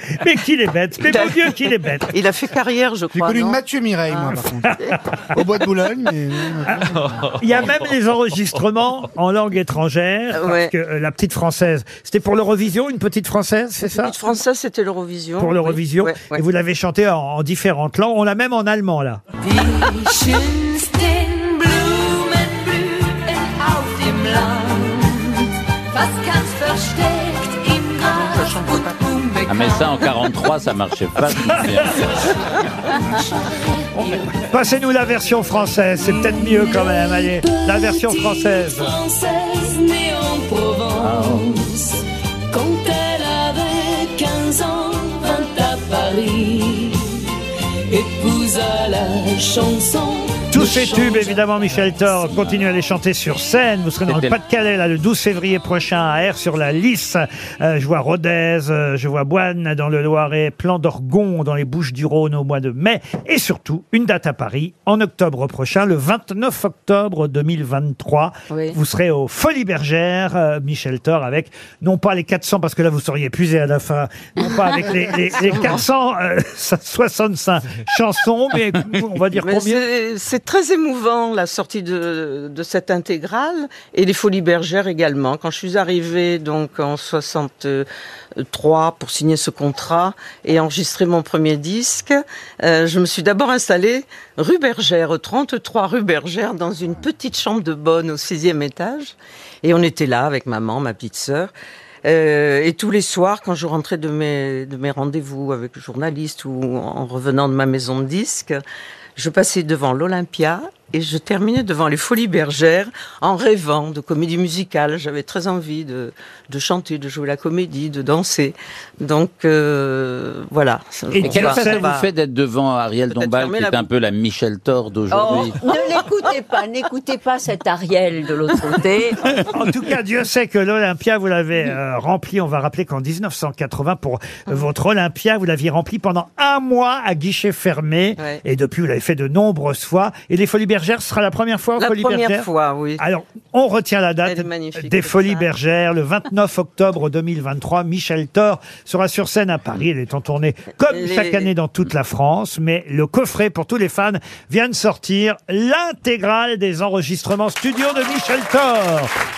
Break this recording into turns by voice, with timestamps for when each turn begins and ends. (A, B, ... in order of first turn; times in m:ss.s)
0:00.2-0:02.1 A
0:01.0-0:01.5 B
0:02.1-0:05.0 B
0:03.1-0:04.8 C
0:05.3-0:07.0 C
0:07.4-0:14.2 A
0:10.3-0:10.7 B
0:13.9-0:16.4 B
0:15.4-0:19.2 A
0:19.4-0:30.3 D
0:28.2-0:28.9 B
0:29.5-0:31.9 E
0:31.5-0:32.3 D
0:33.0-0:34.3 D
0:34.2-0:38.9 A
0:36.2-0:47.3 D
0:41.0-0:41.4 E
0:47.9-0:52.4 D
0:50.5-1:19.8 A
0:54.1-0:54.4 E
1:08.5-1:08.8 B
1:15.5-1:15.8 B
1:19.3-1:27.8 B
1:28.4-1:41.5 B
1:42.0-1:48.6 B
1:49.2-2:02.1 B
2:01.1-2:01.9 A
2:01.2-2:05.5 E
2:03.1-2:03.9 B
2:05.1-2:06.4 B
2:05.2-2:09.3 F
2:09.5-2:39.1 A
2:21.8-2:23.0 B
2:24.2-2:25.5 B
2:30.9-2:31.5 B